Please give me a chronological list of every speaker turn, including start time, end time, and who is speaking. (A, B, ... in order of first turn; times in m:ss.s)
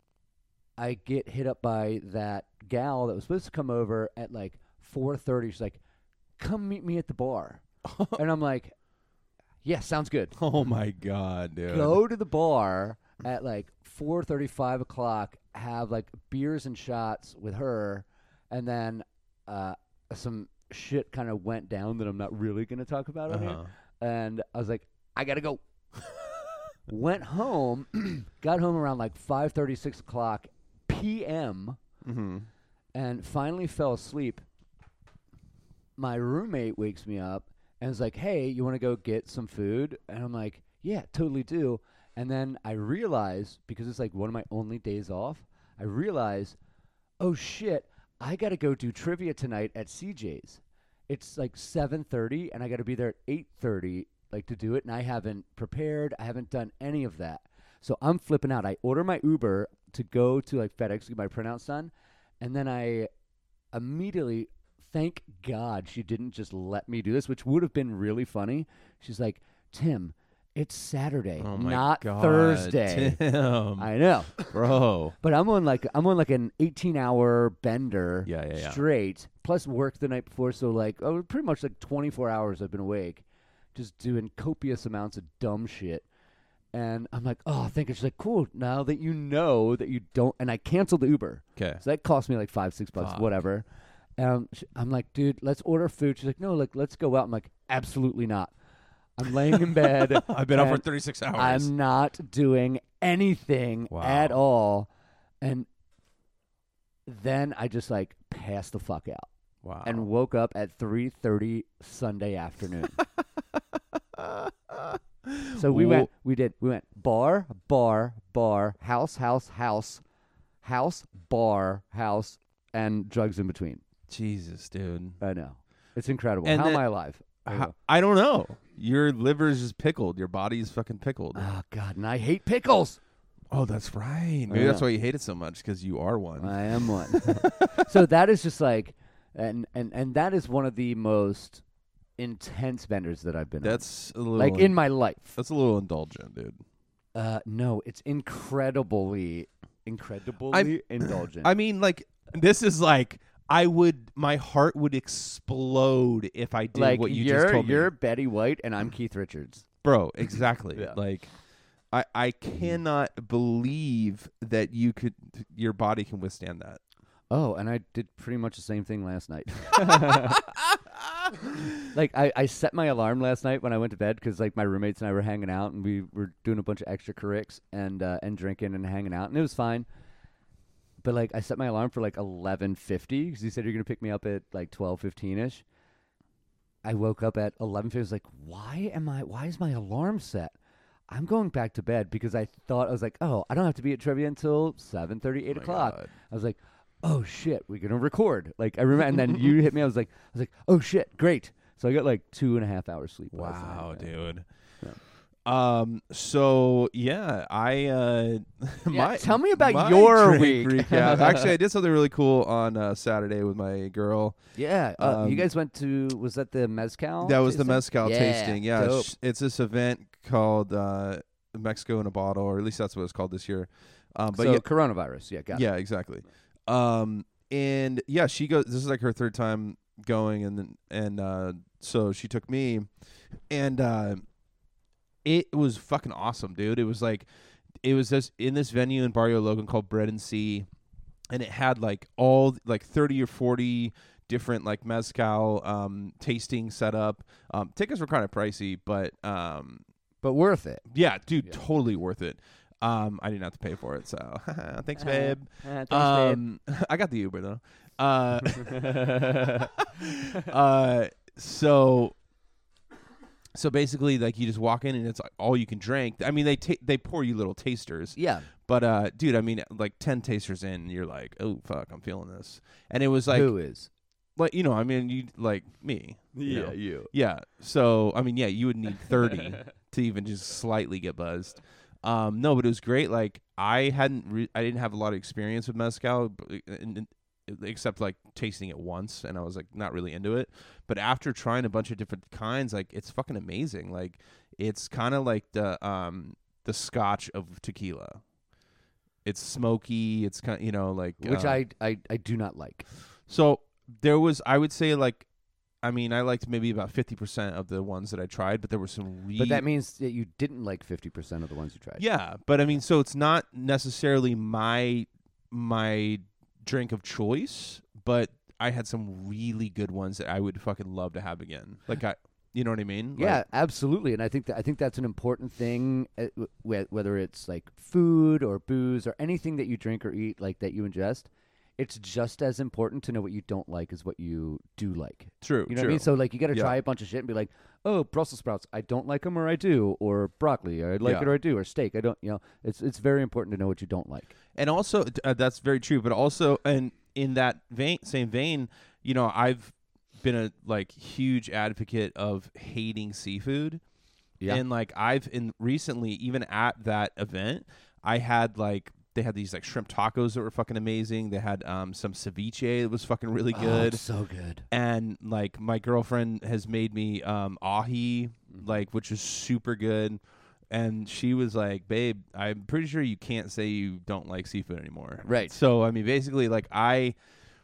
0:00.8-0:05.8 A
0:06.4-0:07.6 A
0:07.8-0:08.2 B
0:08.2-0:08.7 A
0:09.6-0:10.3 A
0:10.4-0:12.0 B
0:11.7-0:25.6 A
0:23.3-0:23.7 B
0:26.9-0:31.8 A
0:32.0-0:32.5 B
0:32.9-0:34.4 A
0:36.0-0:46.6 A
0:47.2-1:03.1 A
1:03.7-1:13.2 A
1:11.4-1:15.2 B
1:13.8-1:14.4 A
1:15.2-1:26.0 A
1:18.2-1:18.8 B
1:26.7-1:33.6 A
1:31.6-1:31.8 B
1:33.0-1:33.3 B
1:34.2-1:38.5 A
1:39.2-1:44.9 A
1:39.8-1:41.7 B
1:43.9-1:44.4 B
1:45.4-1:45.7 A
1:47.0-1:49.3 A
1:49.6-1:50.1 B
1:49.8-1:53.0 A
1:54.2-1:56.1 B
1:55.5-2:00.0 A
2:00.6-2:03.8 A
2:04.1-2:05.2 B
2:05.2-2:07.7 A
2:06.4-2:06.8 B
2:07.4-2:11.5 B
2:11.3-2:13.0 A
2:13.5-2:17.9 B
2:14.5-2:14.8 A
2:16.4-2:21.6 A
2:22.2-2:23.8 A
2:23.6-2:24.8 B
2:24.3-2:25.4 A
2:25.3-2:26.6 B
2:27.1-2:31.5 A
2:30.5-2:37.9 B
2:36.7-2:39.6 A
2:39.8-2:41.3 B
2:41.9-2:46.8 B
2:47.3-2:50.4 A
2:51.8-2:59.8 A
3:01.0-3:05.6 A
3:06.8-3:10.5 A
3:11.1-3:24.1 A
3:15.5-3:16.1 B
3:23.3-3:24.4 B
3:25.4-3:34.4 B
3:28.9-3:31.5 A
3:34.6-3:39.1 A
3:35.0-3:35.5 B
3:37.2-3:44.6 B
3:44.3-3:45.6 A
3:45.5-3:52.9 B
3:53.5-3:54.2 B
3:55.2-3:57.3 B
3:57.8-4:00.7 B
4:01.3-4:09.8 B
4:10.2-4:10.8 A
4:10.9-4:22.2 B
4:15.0-4:16.4 A
4:18.6-4:19.7 A
4:23.5-4:33.5 B
4:28.2-4:28.5 A
4:33.3-4:33.9 A
4:34.4-4:58.2 B
4:36.3-4:37.1 A
4:59.2-5:01.6 B
5:01.2-5:02.8 A
5:03.3-5:05.3 B
5:05.8-5:09.6 B
5:09.4-5:12.0 A
5:12.0-5:23.4 B
5:23.2-5:44.3 A
5:35.4-5:36.7 B
5:41.0-5:41.3 B
5:44.5-5:53.8 B
5:54.5-6:04.0 B
6:03.5-6:04.6 A
6:04.7-6:10.2 B
6:10.7-6:17.2 B
6:15.2-6:15.5 A